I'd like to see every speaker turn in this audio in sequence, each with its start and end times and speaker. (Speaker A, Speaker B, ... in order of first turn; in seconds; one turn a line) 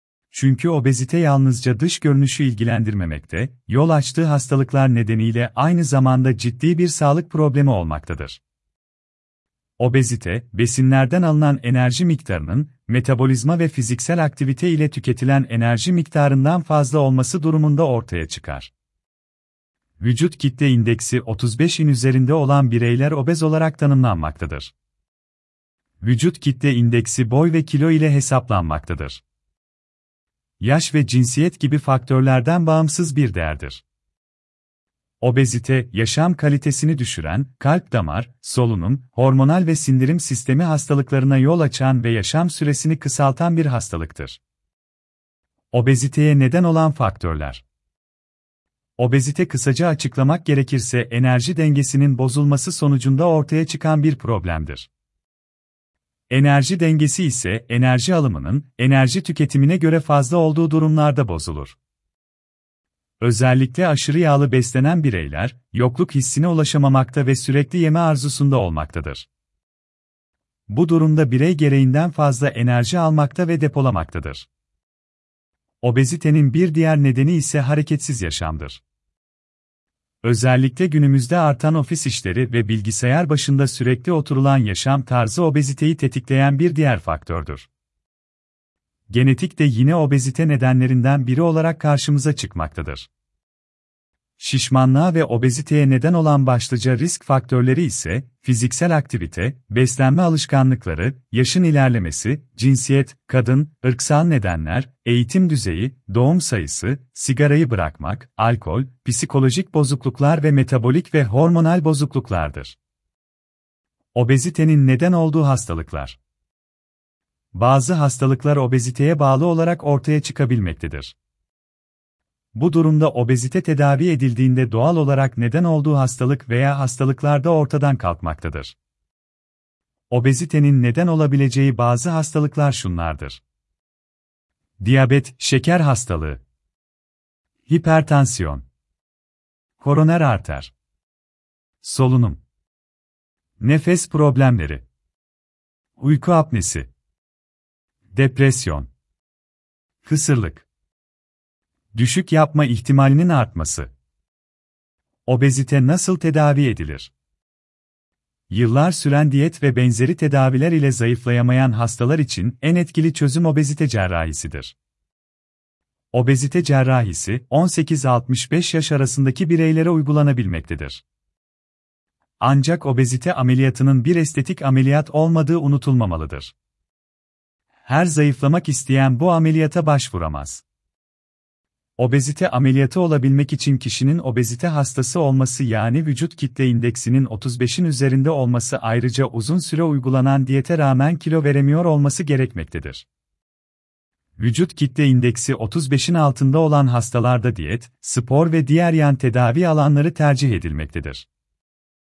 Speaker A: 0.3-8.4
Speaker A: 9.8-18.7
Speaker A: 20.0-24.7
Speaker A: 26.0-29.2
Speaker A: 30.6-33.8
Speaker A: 35.2-44.4
Speaker A: 45.7-47.6
Speaker A: 49.0-54.9
Speaker A: 56.3-61.8
Speaker A: 63.2-69.3
Speaker A: 70.7-74.5
Speaker A: 75.8-78.8
Speaker A: 80.2-87.7
Speaker A: 89.1-93.1
Speaker A: 94.4-112.8
Speaker A: 114.1-116.2
Speaker A: 117.5-121.1
Speaker A: 122.5-128.8
Speaker A: 130.1-133.4
Speaker A: 134.8-136.4
Speaker A: 137.7-138.6
Speaker A: 139.8-140.7
Speaker A: 141.8-142.4
Speaker A: 143.6-144.8
Speaker A: 146.0-146.9
Speaker A: 148.1-148.9
Speaker A: 150.0-150.7
Speaker A: 151.9-153.9
Speaker A: 155.3-157.1
Speaker A: 158.5-164.7
Speaker A: 166.1-171.0
Speaker A: 172.4-176.5
Speaker A: 177.8-180.6
Speaker A: 182.0-193.1
Speaker A: 194.4-201.3